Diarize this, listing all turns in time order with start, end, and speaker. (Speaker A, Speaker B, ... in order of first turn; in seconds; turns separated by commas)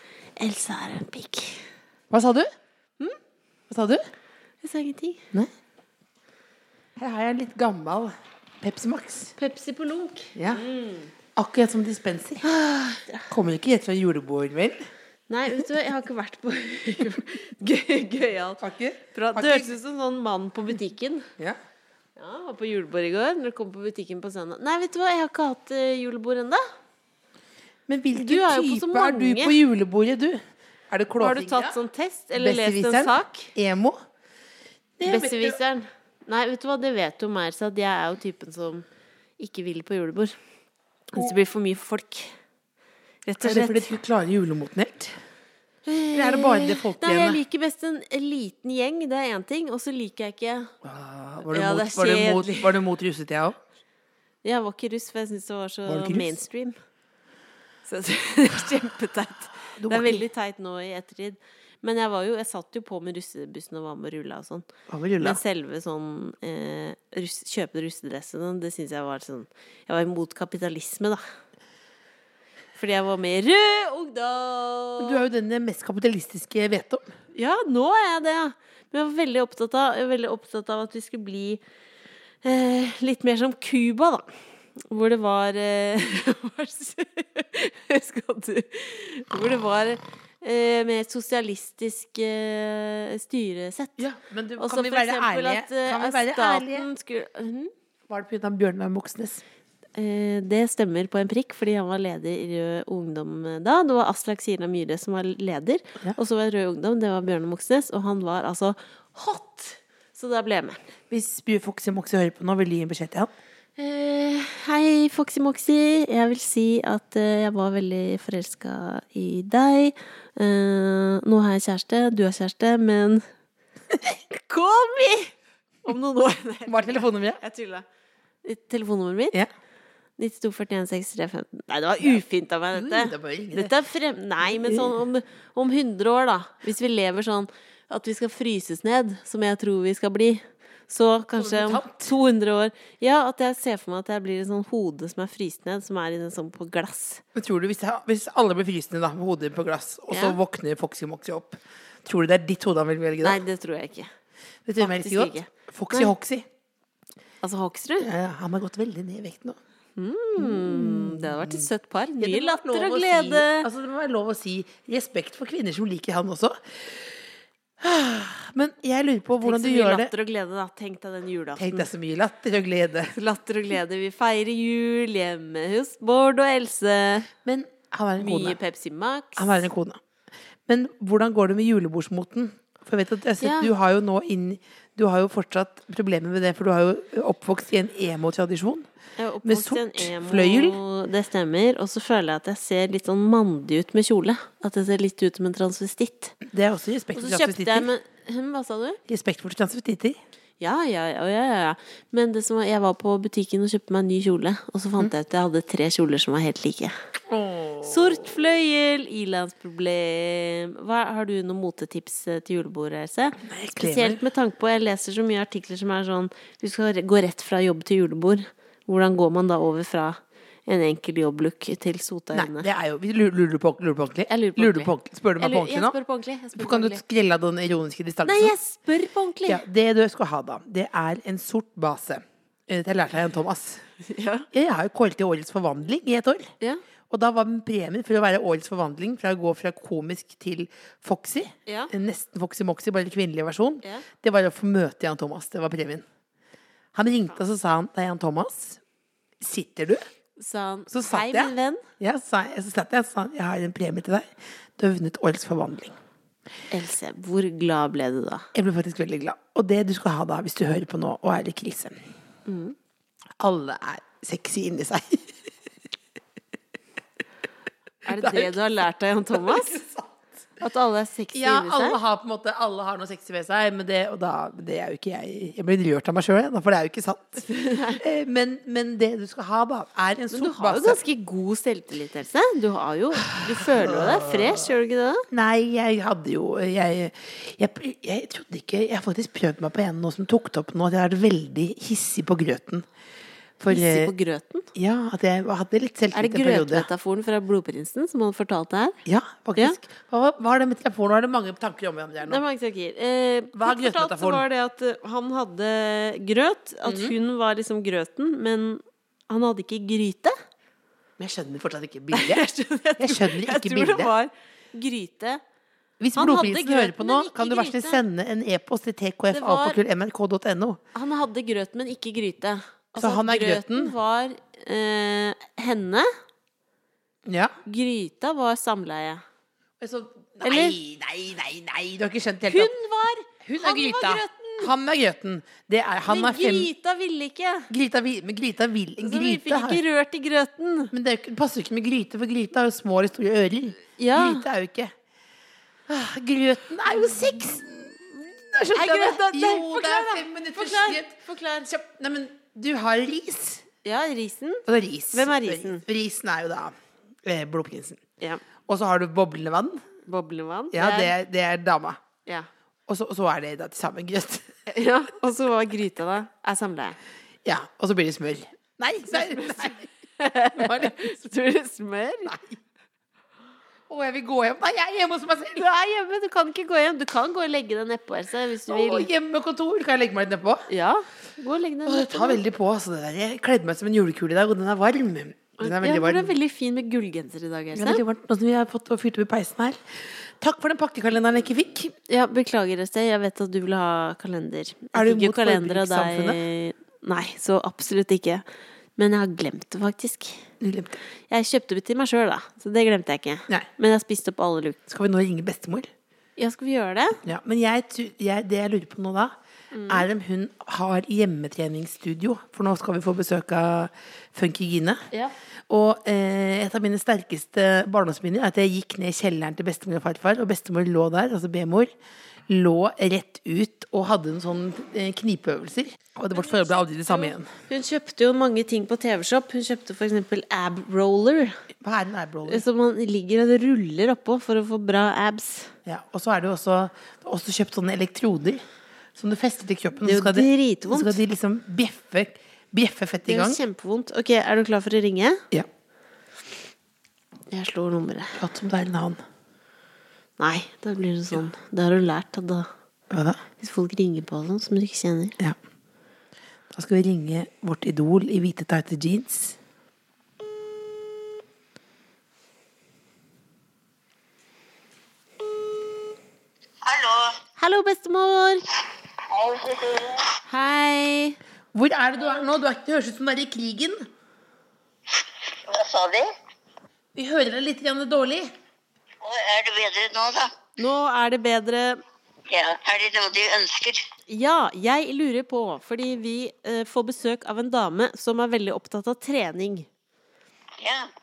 Speaker A: 0.4-1.6, Speaker B: 2.1-2.5, Speaker B: 3.7-4.0, Speaker A: 4.6-5.2, Speaker B: 7.0-9.3, Speaker A: 9.4-11.1, Speaker B: 10.3-10.6, Speaker B: 11.3-12.5, Speaker A: 12.4-13.3, Speaker B: 13.3-14.8, Speaker A: 15.3-18.6, Speaker B: 18.6-19.7, Speaker A: 19.1-21.3, Speaker A: 22.2-26.6, Speaker B: 27.9-31.8, Speaker A: 28.2-29.6, Speaker A: 31.2-33.5, Speaker B: 32.3-34.0, Speaker B: 35.0-35.6, Speaker A: 35.0-38.8, Speaker A: 39.4-40.3, Speaker A: 41.1-42.3, Speaker A: 43.2-43.9, Speaker B: 43.4-45.1, Speaker A: 45.9-50.7, Speaker B: 46.1-47.4, Speaker B: 50.8-53.6, Speaker A: 51.5-52.8, Speaker A: 54.4-56.7, Speaker B: 55.9-56.4, Speaker A: 57.9-64.7, Speaker B: 59.8-60.2, Speaker B: 64.9-65.4, Speaker A: 65.2-71.2, Speaker A: 72.7-75.2, Speaker B: 75.0-77.1, Speaker A: 77.3-81.6, Speaker A: 82.4-84.3, Speaker A: 84.9-94.0, Speaker B: 94.0-96.9, Speaker A: 94.6-97.7, Speaker B: 98.1-99.4, Speaker A: 100.0-110.8, Speaker B: 111.1-113.3, Speaker A: 113.8-123.2, Speaker A: 124.3-125.3, Speaker A: 125.8-127.8, Speaker B: 126.7-127.4, Speaker A: 128.4-129.4, Speaker A: 130.2-147.2, Speaker B: 132.7-133.7, Speaker B: 134.4-135.0, Speaker B: 141.3-142.0, Speaker B: 147.3-153.4, Speaker A: 150.1-150.4, Speaker A: 153.2-154.1, Speaker B: 154.7-156.4, Speaker A: 154.8-156.1, Speaker A: 157.4-158.1, Speaker B: 158.0-159.6, Speaker A: 160.0-163.7, Speaker B: 160.4-161.7, Speaker B: 162.2-167.2, Speaker B: 167.8-170.1, Speaker A: 169.4-171.9, Speaker B: 171.6-173.1, Speaker A: 173.1-177.3, Speaker B: 177.4-178.6, Speaker A: 178.2-179.6, Speaker B: 179.4-180.0, Speaker B: 180.7-188.9, Speaker A: 183.4-183.7, Speaker A: 189.2-196.4, Speaker B: 189.4-190.8, Speaker B: 196.4-197.9, Speaker A: 197.2-199.0, Speaker B: 199.1-200.2, Speaker A: 200.6-206.9, Speaker B: 207.3-208.3, Speaker A: 207.8-222.7, Speaker B: 213.4-214.2, Speaker B: 222.3-225.9, Speaker A: 224.3-227.0, Speaker B: 226.5-228.5, Speaker A: 228.2-229.6, Speaker B: 229.4-233.8, Speaker A: 234.1-234.5, Speaker B: 234.5-236.5, Speaker B: 237.1-246.0, Speaker A: 241.7-241.9, Speaker B: 246.9-248.8, Speaker B: 249.4-250.0, Speaker A: 250.4-251.8, Speaker B: 250.9-256.0, Speaker A: 256.7-258.5, Speaker B: 258.5-261.9, Speaker A: 262.5-262.7, Speaker B: 263.4-265.3, Speaker A: 268.0-269.8, Speaker B: 268.1-268.6, Speaker B: 269.3-270.3, Speaker A: 270.6-272.0, Speaker B: 271.3-281.0, Speaker A: 277.5-278.0, Speaker A: 280.3-285.2, Speaker B: 283.7-284.6, Speaker B: 285.3-292.9, Speaker B: 293.6-294.1, Speaker A: 293.7-294.7, Speaker B: 294.7-296.9, Speaker A: 296.1-299.0, Speaker B: 299.1-302.4, Speaker A: 302.2-310.3, Speaker B: 303.5-304.4, Speaker B: 306.8-307.1, Speaker B: 311.2-312.4, Speaker A: 312.1-315.4, Speaker B: 313.0-314.1, Speaker B: 316.0-320.8, Speaker A: 316.1-318.0, Speaker A: 319.3-319.8, Speaker A: 320.9-326.1, Speaker B: 322.9-323.9, Speaker B: 327.2-327.6, Speaker A: 327.6-329.2, Speaker B: 329.8-332.7, Speaker A: 330.4-330.8, Speaker A: 332.5-334.7, Speaker B: 333.4-336.7, Speaker A: 336.1-337.7, Speaker B: 337.7-339.8, Speaker A: 339.0-340.9, Speaker B: 340.9-344.9, Speaker A: 344.0-344.4, Speaker B: 345.9-351.2, Speaker A: 347.0-347.4, Speaker A: 348.7-351.7, Speaker B: 351.7-353.7, Speaker A: 353.8-355.8, Speaker B: 354.7-358.1, Speaker B: 358.7-359.9, Speaker A: 360.1-361.1, Speaker B: 360.7-362.0, Speaker B: 362.9-364.5, Speaker A: 364.7-367.0, Speaker B: 367.4-369.9, Speaker A: 369.1-372.4, Speaker B: 370.5-371.1, Speaker B: 372.2-372.6, Speaker B: 373.9-375.7, Speaker A: 375.6-379.1, Speaker B: 378.7-380.6, Speaker A: 380.7-382.4, Speaker B: 381.9-386.3, Speaker A: 385.6-388.0, Speaker B: 387.7-391.9, Speaker A: 392.1-398.4, Speaker B: 394.9-396.4, Speaker A: 399.0-400.4, Speaker B: 400.6-401.0, Speaker A: 401.3-404.8, Speaker B: 404.9-405.9, Speaker A: 406.4-407.2, Speaker B: 407.2-409.3, Speaker A: 409.7-410.1, Speaker B: 409.9-415.1, Speaker B: 415.7-421.9, Speaker B: 422.5-427.5, Speaker A: 426.3-431.6, Speaker B: 431.8-432.6, Speaker A: 432.5-435.7, Speaker B: 435.9-438.6, Speaker B: 439.1-443.6, Speaker A: 440.0-441.2, Speaker A: 443.2-445.4, Speaker A: 447.5-448.4, Speaker B: 448.4-449.2, Speaker A: 450.4-452.7, Speaker B: 453.1-453.4, Speaker A: 453.6-455.4, Speaker B: 456.7-459.6, Speaker C: 466.8-467.4, Speaker A: 467.6-468.6, Speaker C: 469.2-470.4, Speaker A: 470.4-471.4, Speaker B: 471.7-474.1, Speaker C: 475.5-476.3, Speaker B: 477.1-478.5, Speaker C: 479.2-480.5, Speaker A: 480.8-482.0, Speaker C: 482.5-484.0, Speaker A: 484.3-489.9, Speaker C: 490.8-491.1